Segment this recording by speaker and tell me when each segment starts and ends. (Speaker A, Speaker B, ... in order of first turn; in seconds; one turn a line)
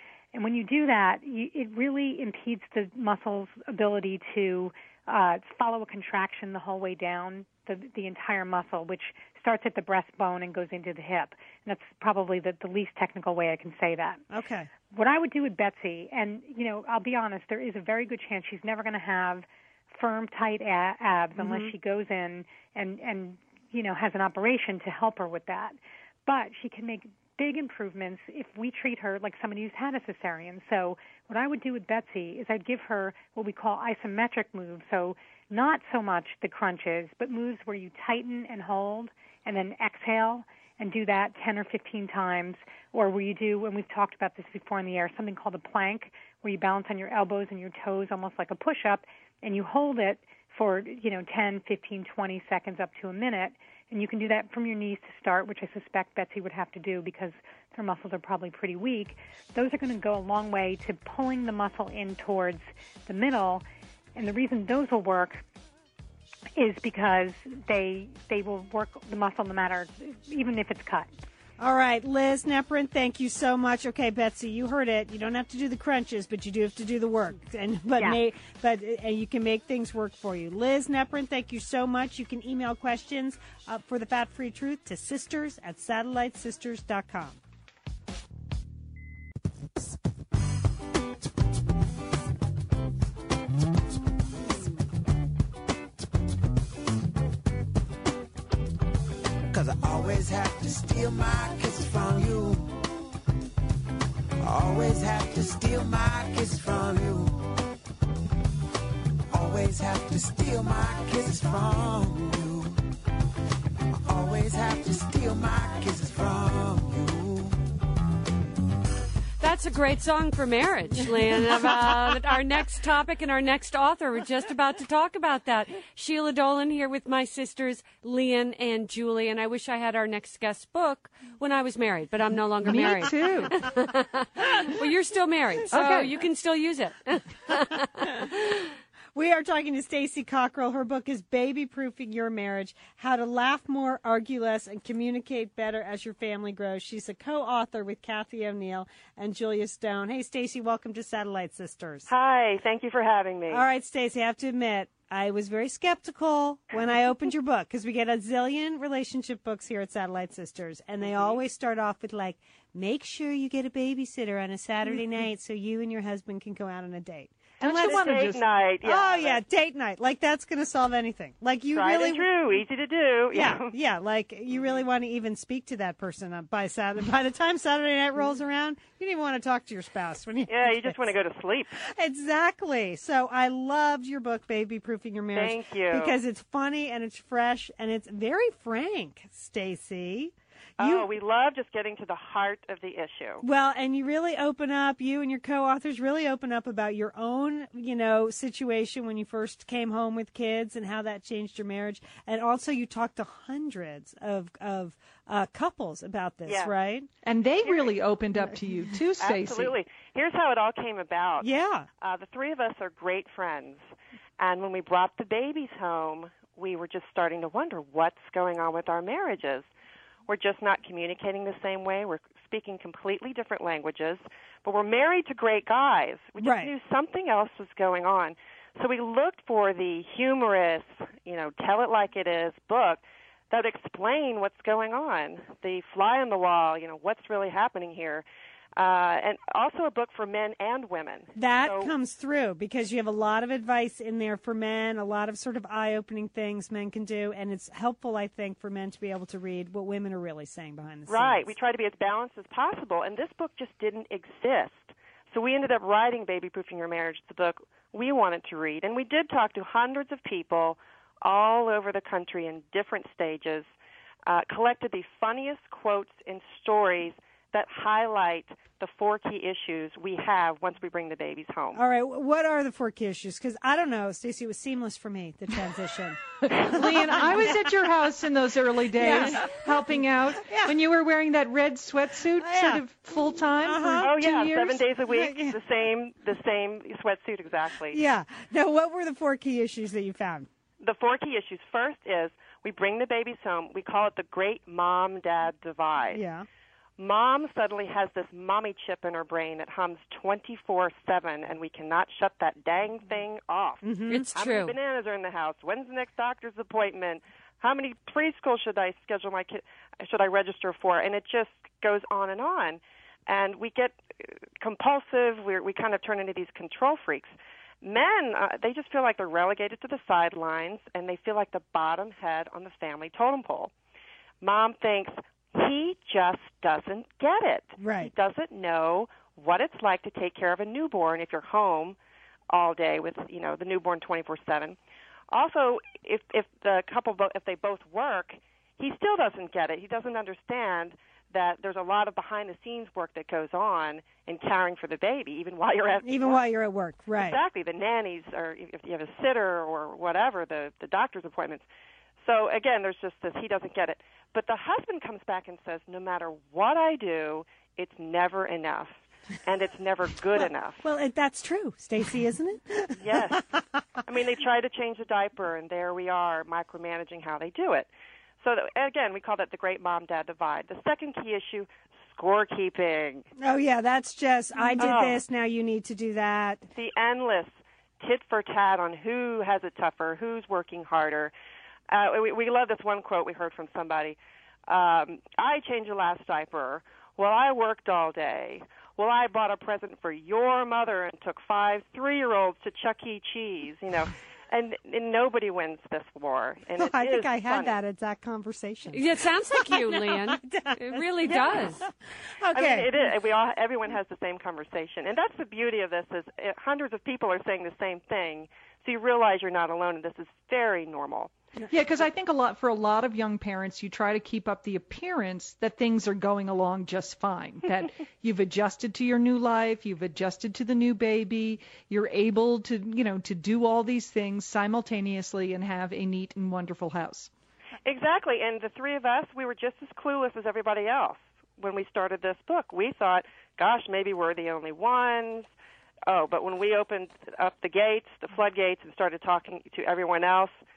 Speaker A: 0.3-14.2
Speaker B: 14.3-14.7
Speaker A: 14.9-65.4
Speaker B: 21.4-21.7
Speaker A: 66.6-71.1
Speaker B: 71.6-87.4
Speaker C: 99.5-102.9
Speaker C: 104.4-107.6
Speaker C: 109.3-112.8
Speaker C: 114.0-117.6
Speaker D: 119.4-138.3
Speaker E: 132.6-133.7
Speaker E: 135.7-136.2
Speaker B: 139.1-152.1
Speaker F: 152.1-153.6
Speaker B: 153.5-168.2
Speaker F: 161.0-161.4
Speaker E: 167.6-168.4
Speaker F: 167.6-169.4
Speaker B: 168.8-172.3
Speaker F: 171.7-173.7
Speaker B: 173.3-181.1
Speaker F: 180.5-181.7
Speaker B: 181.8-191.1
Speaker F: 185.3-186.2
Speaker F: 190.8-193.4
Speaker B: 193.4-207.1
Speaker F: 206.5-206.7
Speaker E: 207.2-209.7
Speaker F: 209.2-211.5
Speaker B: 211.4-211.9
Speaker F: 212.0-213.9
Speaker F: 214.4-219.7
Speaker F: 220.3-238.2
Speaker B: 226.4-226.7
Speaker F: 238.8-241.9
Speaker B: 241.4-251.5
Speaker F: 251.1-263.7
Speaker F: 264.3-271.8
Speaker B: 271.7-277.6
Speaker E: 276.5-284.8
Speaker B: 279.0-279.5
Speaker B: 280.4-280.8
Speaker B: 282.4-282.8
Speaker B: 283.6-284.2
Speaker F: 284.0-288.0
Speaker B: 285.1-285.6
Speaker B: 287.9-290.5
Speaker F: 290.8-296.2
Speaker B: 296.1-296.5
Speaker F: 297.0-323.7
Speaker B: 303.8-304.3
Speaker D: 304.1-304.8
Speaker F: 324.4-332.0
Speaker B: 327.8-328.1
Speaker F: 332.5-334.8
Speaker F: 335.3-346.4
Speaker B: 346.0-347.4
Speaker F: 347.1-351.6
Speaker F: 352.2-360.8
Speaker B: 360.8-363.4
Speaker F: 363.0-363.4
Speaker F: 364.1-367.9
Speaker F: 368.4-373.2
Speaker B: 373.4-376.7
Speaker F: 374.8-375.2
Speaker F: 376.7-381.3
Speaker F: 381.9-397.7
Speaker B: 396.8-402.9
Speaker D: 398.9-401.8
Speaker F: 402.5-411.3
Speaker E: 411.7-427.3
Speaker F: 427.9-435.5
Speaker F: 436.1-440.5